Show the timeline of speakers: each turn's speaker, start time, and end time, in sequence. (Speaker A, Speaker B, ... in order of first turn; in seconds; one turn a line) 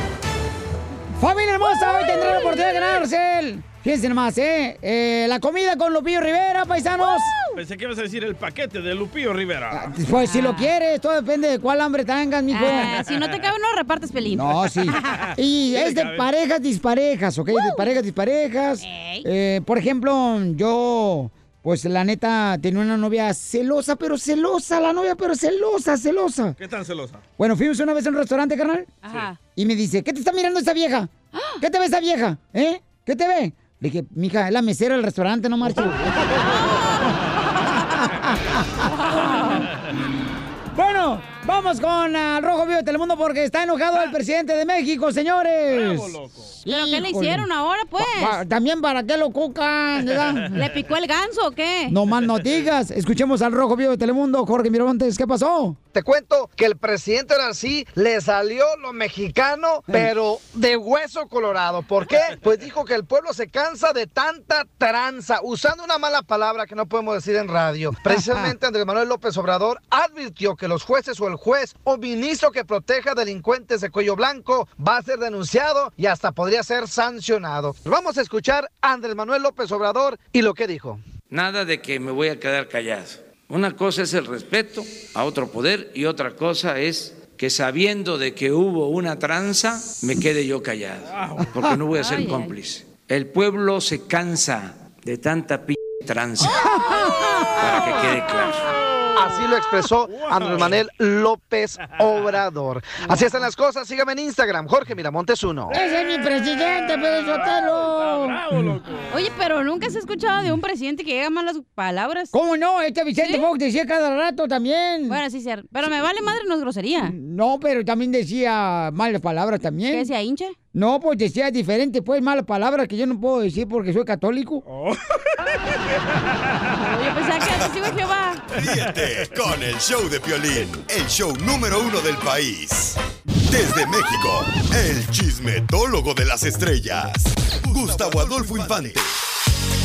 Speaker A: 1.2-7.3
Speaker B: 7.6-9.9
Speaker A: 9.7-13.0
Speaker C: 10.2-10.7
Speaker C: 12.5-15.2
Speaker A: 14.3-26.6
Speaker B: 15.7-16.2
Speaker C: 17.5-17.9
Speaker C: 18.8-19.3
Speaker B: 26.6-27.2
Speaker A: 27.4-28.9
Speaker C: 29.0-29.4
Speaker A: 29.6-36.2
Speaker C: 31.3-31.6
Speaker B: 35.7-36.3
Speaker C: 36.4-37.1
Speaker A: 38.1-38.6
Speaker C: 39.1-39.6
Speaker A: 40.7-50.6
Speaker B: 45.7-46.5
Speaker C: 46.7-48.4
Speaker C: 50.6-52.0
Speaker A: 51.9-55.8
Speaker D: 55.9-81.0
Speaker A: 67.9-68.5
Speaker E: 81.3-96.6
Speaker B: 91.2-91.5
Speaker C: 92.0-92.5
Speaker A: 96.6-97.0
Speaker E: 97.6-98.6
Speaker D: 99.2-105.8
Speaker B: 100.1-100.8
Speaker B: 105.7-106.2
Speaker A: 105.7-108.4
Speaker B: 107.2-109.2
Speaker C: 109.1-112.3
Speaker A: 112.3-115.2
Speaker C: 113.2-113.5
Speaker C: 115.1-117.2
Speaker A: 117.0-120.1
Speaker C: 119.9-120.5
Speaker A: 120.7-124.6
Speaker B: 124.7-125.0
Speaker C: 126.8-128.4
Speaker F: 128.6-133.0
Speaker F: 133.5-139.2
Speaker B: 137.7-138.8